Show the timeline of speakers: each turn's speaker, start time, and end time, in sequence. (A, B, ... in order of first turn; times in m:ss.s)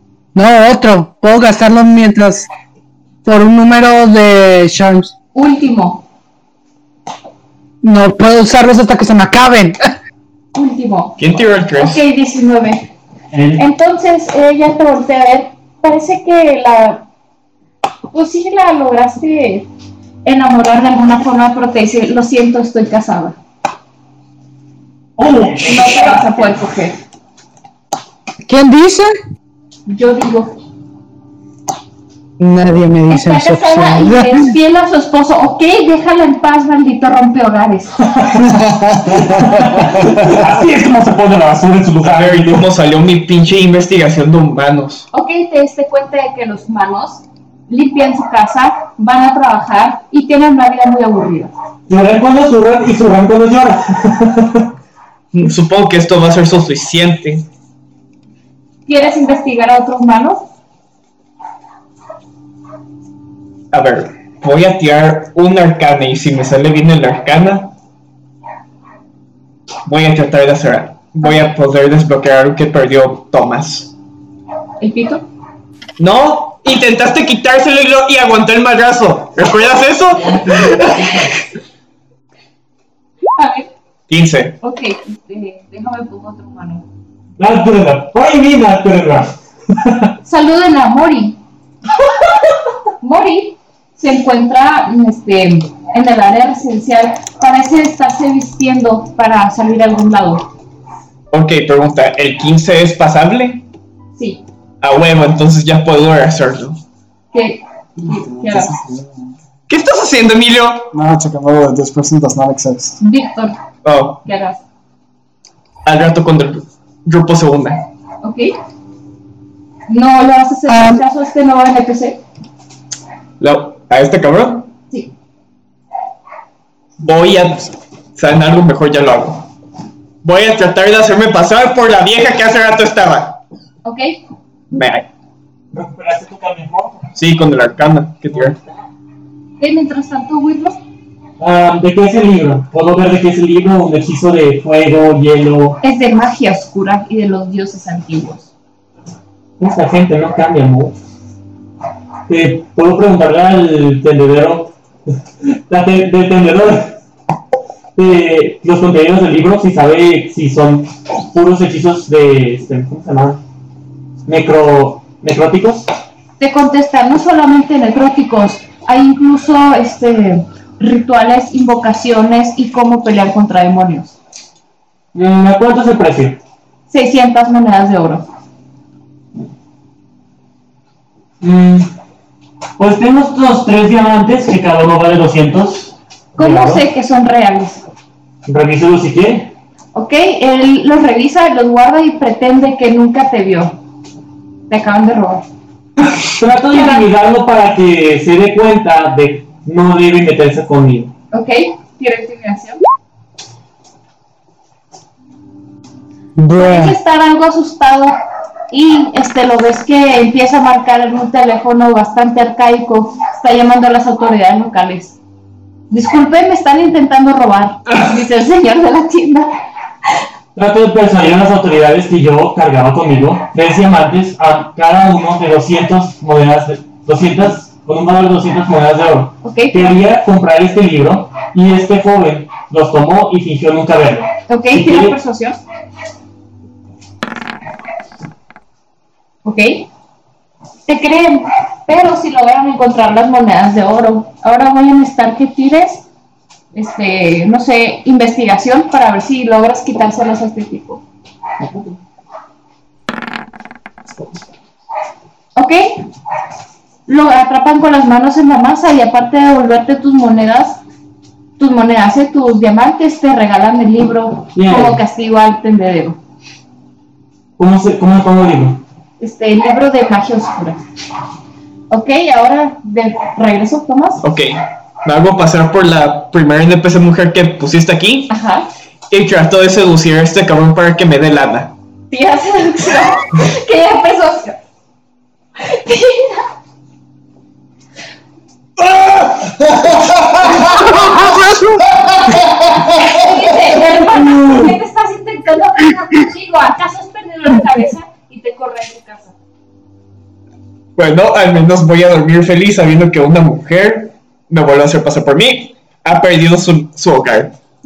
0:00.4-0:02.5 A
0:03.2-0:05.1 A
0:05.4-0:06.0 B
0:07.8-0:09.9 A
0:10.5-0:11.2 B
0:11.2-0:12.0 C
0:11.8-0:12.9 B
0:13.3-0:13.6 D
0:13.6-0:17.0 B
0:18.1-0:19.7 B
0:20.2-0:23.4 B
0:25.2-0:26.3 D
0:25.6-0:27.0 B
0:28.4-0:29.1 A
0:29.9-0:30.6 B
0:32.4-0:34.5 A
0:33.1-0:38.0 B
0:38.6-0:40.3 E
0:39.0-0:42.7 D
0:42.0-0:45.1 C
0:45.1-0:51.5 B
0:51.9-0:54.7 D
0:55.3-0:57.5 C
0:58.9-1:00.4 B
1:03.7-1:07.7 C
1:09.9-1:13.9 C
1:11.2-1:11.5 B
1:14.8-1:15.3 B
1:16.0-1:21.2 C
1:20.3-1:20.8 D
1:23.4-1:23.7 B
1:24.1-1:24.6 C
1:24.6-1:26.8 B
1:27.4-1:30.1 D
1:30.2-1:31.4 B
1:33.0-1:40.5 B
1:41.3-1:43.7 C
1:44.2-1:44.4 B
1:44.8-1:46.8 C
1:47.3-1:48.8 B
1:48.0-1:49.3 E
1:49.7-1:50.9 C
1:50.9-1:53.0 E
1:53.0-1:53.6 B
1:53.8-1:54.2 C
1:54.2-1:54.6 B
1:55.8-1:57.8 C
1:58.2-1:58.5 B
1:59.9-2:02.2 B
2:00.7-2:01.0 A
2:03.4-2:04.7 C
2:07.0-2:09.5 C
2:10.2-2:13.4 C
2:13.8-2:14.2 B
2:14.7-2:15.1 C
2:15.7-2:17.0 D
2:17.2-2:18.6 C
2:18.3-2:18.8 D
2:19.6-2:20.8 B
2:21.4-2:25.8 D
2:25.8-2:28.5 B
2:29.6-2:31.0 D
2:32.3-2:34.7 D
2:35.4-2:37.0 D
2:38.0-2:43.4 D
2:44.3-2:45.9 D
2:46.4-2:54.2 B
2:55.1-2:56.4 D
2:56.9-2:58.3 B
3:01.4-3:01.9 D
3:02.8-3:06.8 D
3:06.4-3:07.8 B
3:08.5-3:09.5 D
3:10.0-3:13.8 B
3:14.7-3:15.4 B
3:16.4-3:21.1 D
3:16.7-3:17.0 B
3:21.3-3:22.8 B
3:26.4-3:27.0 A
3:26.5-3:28.2 B
3:28.7-3:35.2 B
3:35.9-3:39.5 B
3:40.6-3:55.2 D
3:49.4-3:50.0 B
3:54.5-3:55.6 B
3:59.4-3:59.9 B
4:00.9-4:06.1 B
4:06.7-4:11.0 B
4:15.6-4:16.1 B
4:17.1-4:20.8 B
4:21.6-4:26.2 B
4:24.6-4:25.0 D
4:27.6-4:28.8 D
4:29.2-4:30.8 B
4:31.9-4:34.2 B
4:34.2-4:38.3 C
4:38.3-4:38.7 B
4:39.1-4:41.7 C
4:42.1-4:44.6 B
4:45.6-4:46.5 B
4:49.4-4:50.6 E
4:50.4-4:51.3 B
4:51.1-4:51.8 A
4:52.1-4:59.4 B
5:01.0-5:07.6 C